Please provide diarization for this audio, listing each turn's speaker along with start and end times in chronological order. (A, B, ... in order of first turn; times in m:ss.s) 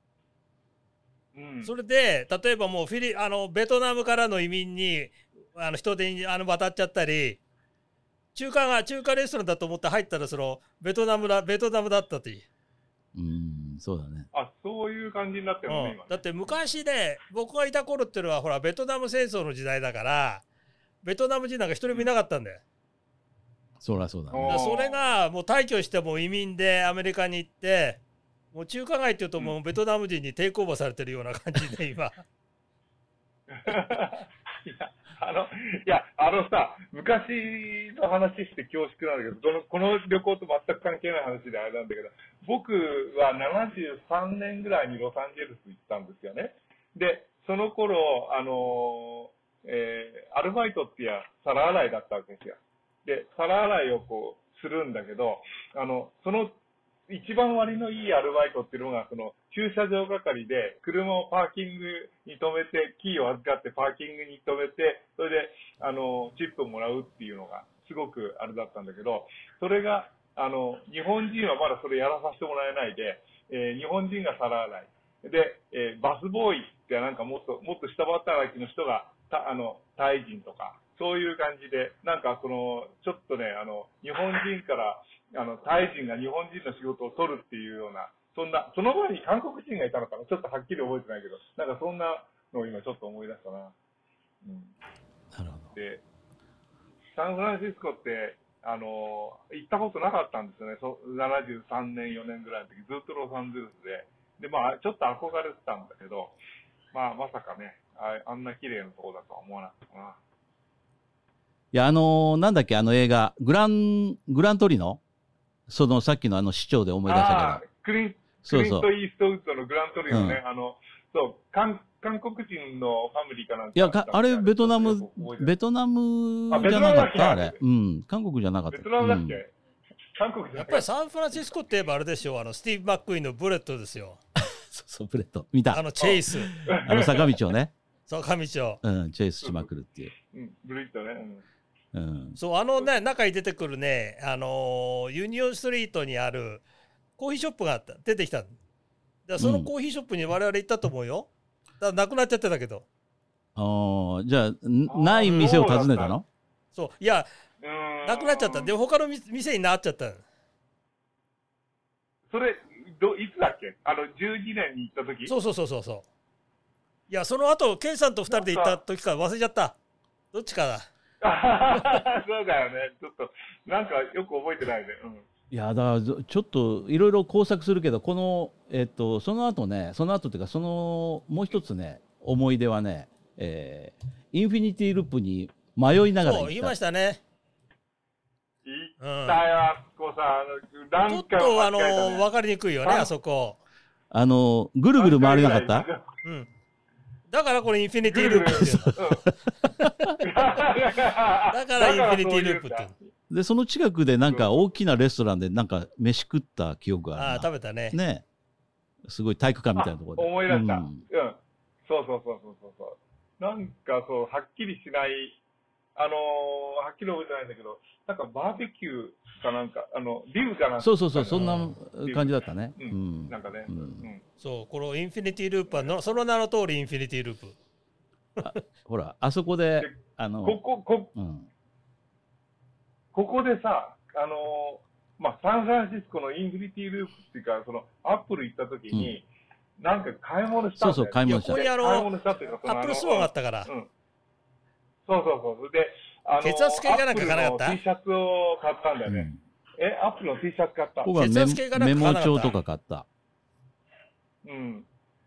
0:01.3-0:01.7 A
0:01.6-0:07.4 B
0:08.3-0:12.4 B
0:13.1-0:14.3 C
0:14.3-0:16.6 A
0:15.7-0:20.4 B
0:21.0-0:22.6 B
0:23.8-0:24.6 C
0:24.3-0:25.1 A
0:24.4-0:28.0 B
0:28.5-0:32.2 B
0:33.5-0:56.6 A
0:57.1-1:33.7 A
1:34.4-1:34.7 A
1:35.3-1:35.7 C
1:35.7-1:36.0 A
1:37.1-1:46.4 A
1:46.9-1:50.2 A
1:51.7-1:55.0 C
1:55.7-1:57.6 C
1:57.1-2:05.5 A
1:58.4-1:58.9 C
2:00.1-2:00.4 C
2:03.7-2:09.4 C
2:06.5-2:07.6 A
2:08.7-2:09.5 A
2:10.2-2:10.9 A
2:10.5-2:14.2 B
2:14.4-2:15.9 C
2:15.7-2:16.6 B
2:16.0-2:17.4 A
2:16.6-2:17.7 C
2:18.1-2:18.8 B
2:18.8-2:20.1 C
2:19.4-2:19.7 A
2:20.3-2:21.4 A
2:21.9-2:22.4 C
2:22.4-2:26.6 B
2:27.2-2:28.5 B
2:29.3-2:31.3 B
2:29.4-2:29.7 C
2:31.8-2:32.8 B
2:33.6-2:36.2 C
2:34.9-2:36.1 A
2:35.3-2:35.5 B
2:36.7-2:37.3 B
2:37.6-2:38.7 A
2:38.0-2:40.2 B
2:42.3-2:45.3 A
2:45.3-2:46.0 B
2:47.1-2:49.8 B
2:48.3-2:48.8 A
2:50.3-2:50.9 B
2:51.2-2:55.2 A
2:55.5-3:06.7 C
3:06.2-3:07.2 B
3:08.6-3:12.2 A
3:09.0-3:09.4 B
3:11.1-3:13.6 B
3:12.8-3:13.1 A
3:14.1-3:15.9 C
3:15.0-3:16.1 A
3:17.3-3:19.0 B
3:18.0-3:19.3 A
3:18.6-3:19.0 C
3:19.7-3:20.2 B
3:19.8-3:20.1 C
3:20.2-3:23.1 A
3:21.5-3:22.9 B
3:23.3-3:28.2 C
3:24.3-3:24.6 A
3:27.2-3:28.0 B
3:29.0-3:31.0 C
3:29.8-3:35.4 A
3:36.0-3:44.2 A
3:40.8-3:44.1 C
3:41.4-3:41.7 B
3:44.4-3:47.6 B
3:45.7-3:46.0 A
3:48.4-3:50.6 C
3:49.8-3:51.1 A
3:51.1-3:51.5 C
3:53.1-3:59.2 A
3:59.8-4:03.9 A
4:00.8-4:01.6 C
4:01.3-4:02.1 B
4:02.6-4:03.7 B
4:05.1-4:11.2 A
4:06.4-4:07.8 B
4:09.1-4:09.4 C
4:11.0-4:13.0 C
4:11.1-4:12.5 B
4:14.4-4:14.9 A